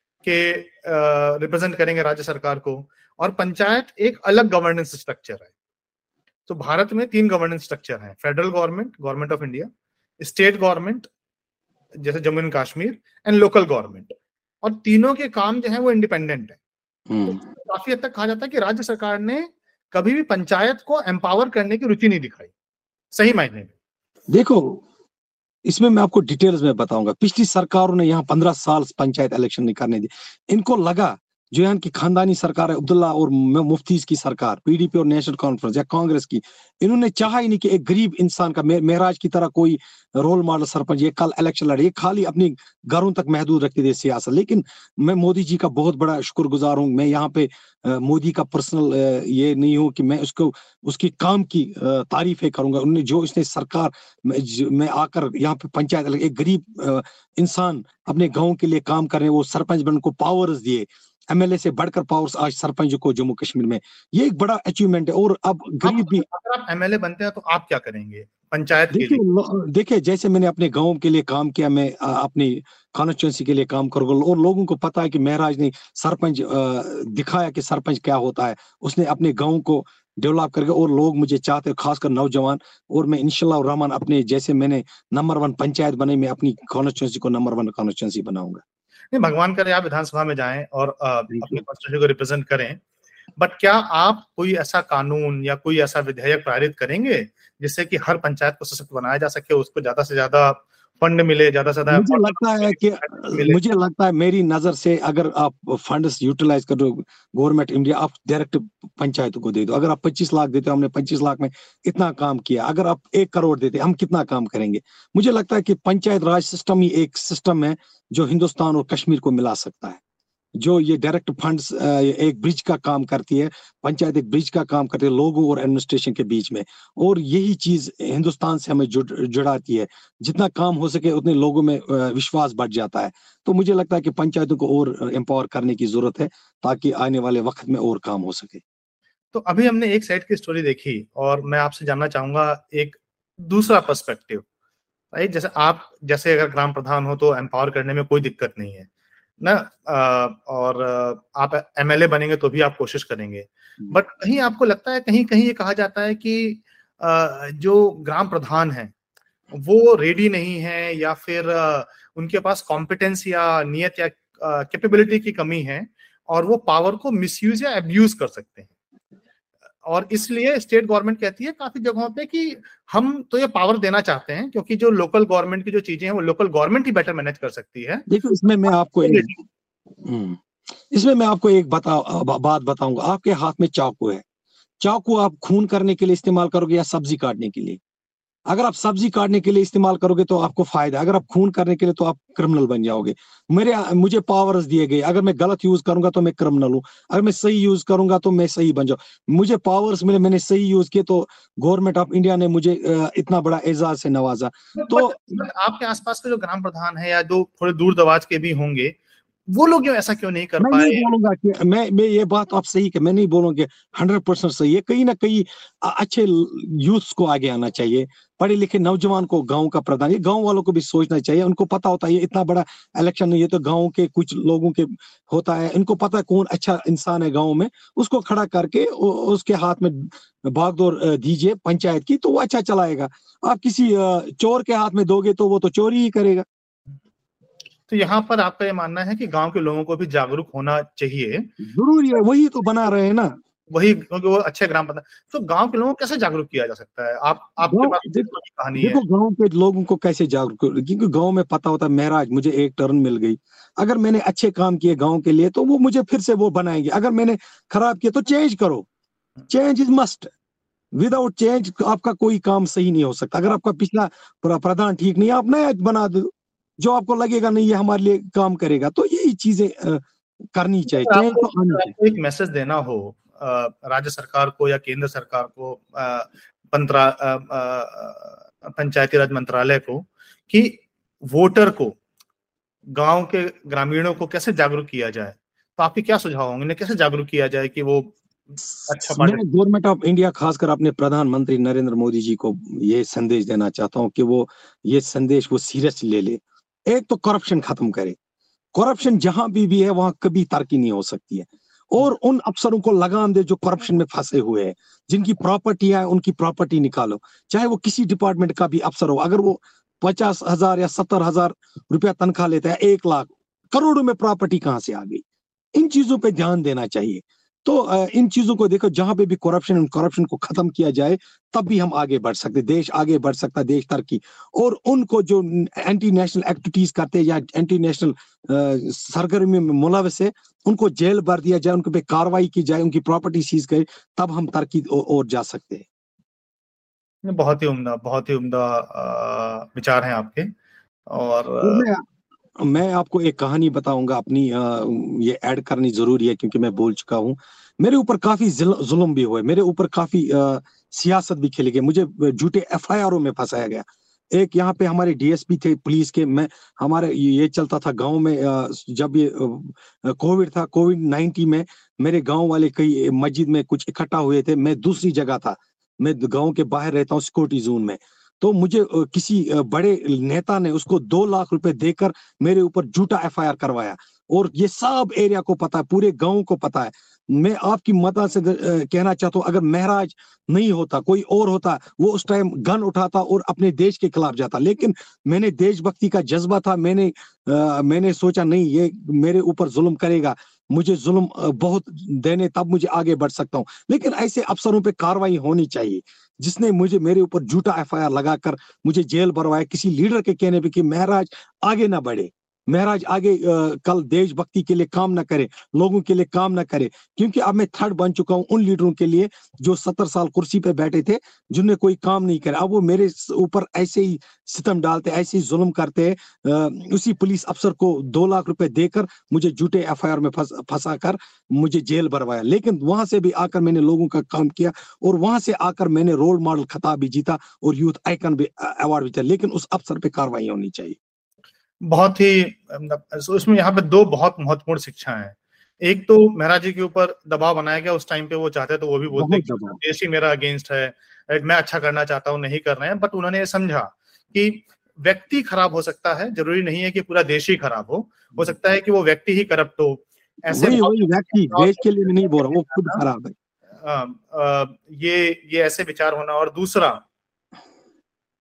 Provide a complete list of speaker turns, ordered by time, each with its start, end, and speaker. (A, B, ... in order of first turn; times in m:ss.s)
0:00.2-0:05.5 A
0:06.5-0:09.7 A
0:10.2-0:11.1 A
0:12.0-0:16.6 A
0:17.1-0:17.4 B
0:17.2-0:22.5 A
0:23.1-0:23.7 A
0:24.3-0:24.8 B
0:25.6-1:06.2 B
1:05.8-1:09.2 A
1:08.9-1:28.6 B
1:29.1-1:32.8 A
1:31.3-1:31.6 B
1:33.4-1:43.6 A
1:41.9-2:00.0 B
2:00.6-2:18.6 B
2:19.3-2:24.4 A
2:25.1-2:28.9 A
2:29.4-2:38.9 A
2:39.5-2:48.7 A
2:49.9-2:58.0 A
2:58.1-2:59.4 B
2:58.7-2:59.3 A
3:00.0-3:04.2 B
3:04.8-3:07.8 B
3:08.5-3:25.4 B
3:24.8-3:29.0 A
3:29.5-3:31.1 A
3:30.6-3:56.5 B
3:57.9-4:01.5 A
4:01.6-4:03.3 B
4:03.7-4:09.0 A
4:07.7-4:18.8 B
4:19.5-4:20.3 B
4:21.0-4:31.9 B
4:30.9-4:42.0 A
4:43.0-4:48.2 A
4:48.9-4:49.4 A
4:49.0-4:58.2 B
4:58.8-5:15.2 B
5:15.8-5:35.9 B
5:37.3-5:40.5 A
5:41.1-5:41.9 A
5:41.6-5:42.0 B
5:42.6-7:11.0 B
7:11.9-7:33.0 A
7:19.2-7:19.8 B
7:30.5-7:33.3 B
7:33.8-7:37.0 A